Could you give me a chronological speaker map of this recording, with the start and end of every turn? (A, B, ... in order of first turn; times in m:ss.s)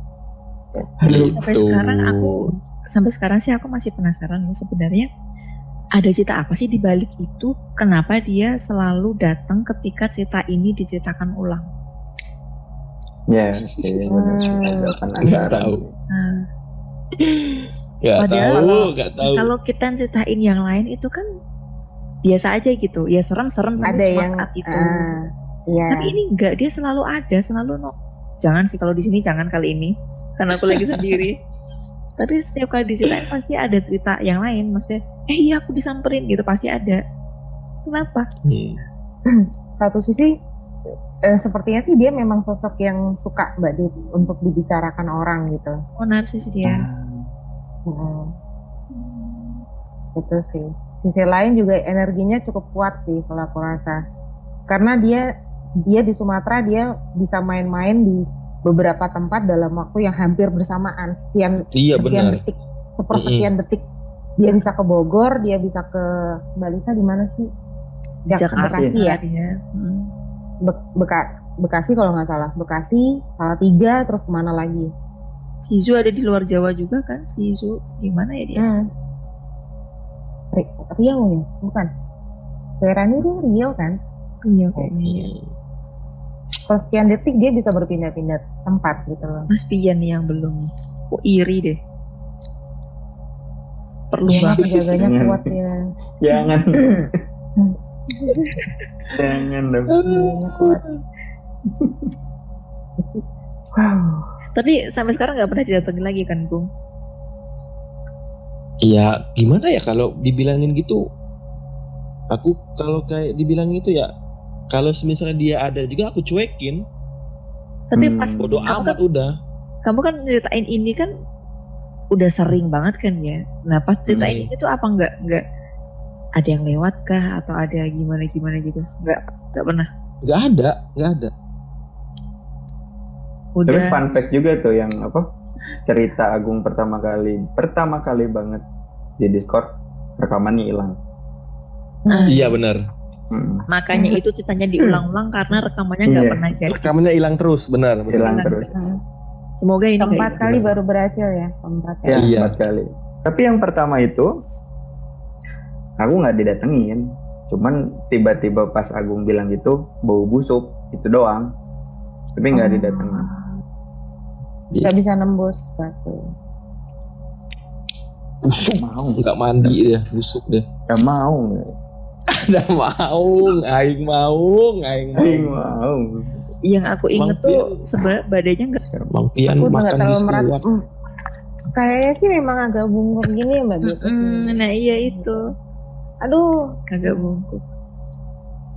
0:01.0-0:01.3 A
0:01.0-0:02.5 B
0:01.1-0:05.1 C
0:06.0-0:11.6 C
0:13.3-0:15.9 A
0:14.1-0:15.0 D
0:15.2-0:15.8 B
0:16.1-0:16.4 C
0:17.2-0:19.5 B
0:18.2-0:18.5 C
0:18.5-0:18.9 D
0:19.2-0:21.2 C
0:22.2-0:25.1 C
0:23.8-0:26.1 D
0:25.9-0:31.4 C
0:30.7-0:31.2 B
0:32.2-0:37.0 C
0:37.8-0:38.3 C
0:38.4-0:38.8 B
0:39.3-0:40.3 D
0:41.2-0:45.8 D
0:46.0-0:46.9 C
0:46.6-0:47.3 A
0:47.9-0:48.3 D
0:49.0-0:49.6 C
0:50.2-0:54.0 D
0:54.7-0:55.2 D
0:55.8-1:03.8 D
1:01.7-1:02.4 B
1:03.1-1:03.5 B
1:04.4-1:06.0 D
1:06.6-1:07.5 D
1:08.3-1:09.2 D
1:08.4-1:10.1 C
1:08.6-1:08.9 A
1:10.6-1:14.9 D
1:15.6-1:18.6 C
1:18.6-1:18.8 D
1:20.5-1:21.9 D
1:22.8-1:24.0 D
1:24.4-1:25.3 C
1:25.0-1:25.5 B
1:26.7-1:29.5 D
1:29.5-1:31.8 C
1:34.1-1:34.9 C
1:34.3-1:35.8 D
1:35.0-1:35.5 A
1:36.2-1:37.2 A
1:38.2-1:38.7 C
1:39.1-1:40.1 A
1:40.0-1:40.8 D
1:40.2-1:40.7 C
1:41.7-1:42.1 A
1:43.7-1:44.3 A
1:44.6-1:46.7 C
1:48.8-1:51.0 B
1:52.3-1:54.1 B
1:54.7-1:56.8 B
1:57.9-1:59.0 C
1:58.0-1:58.7 A
1:58.4-1:59.3 B
1:59.8-2:01.1 C
2:02.1-2:05.4 C
2:04.1-2:04.5 B
2:06.4-2:09.9 C
2:10.2-2:11.3 B
2:13.6-2:14.0 C
2:13.7-2:15.2 A
2:15.8-2:18.6 A
2:19.2-2:21.0 A
2:22.0-2:22.4 D
2:22.1-2:22.5 C
2:22.3-2:22.8 B
2:23.3-2:23.6 A
2:23.7-2:26.9 C
2:23.9-2:24.2 D
2:24.8-2:25.0 D
2:26.0-2:26.4 A
2:26.7-2:28.5 B
2:28.1-2:28.7 A
2:28.2-2:28.8 C
2:29.6-2:30.4 C
2:30.0-2:32.3 D
2:30.4-2:30.7 B
2:32.0-2:34.3 A
2:32.1-2:32.5 B
2:36.0-2:41.5 A
2:42.4-2:43.3 A
2:42.5-2:43.5 D
2:44.8-2:46.3 D
2:48.4-2:50.6 B
2:48.5-2:49.8 A
2:50.9-2:51.7 A
2:52.3-2:55.5 B
2:55.2-2:56.2 A
2:56.7-2:58.8 C
2:57.2-2:57.8 B
2:58.8-2:59.1 A
2:59.1-3:00.6 B
2:59.5-3:00.8 D
3:01.7-3:05.5 D
3:03.8-3:05.5 C
3:06.2-3:06.5 D
3:06.9-3:07.6 C
3:07.0-3:07.3 D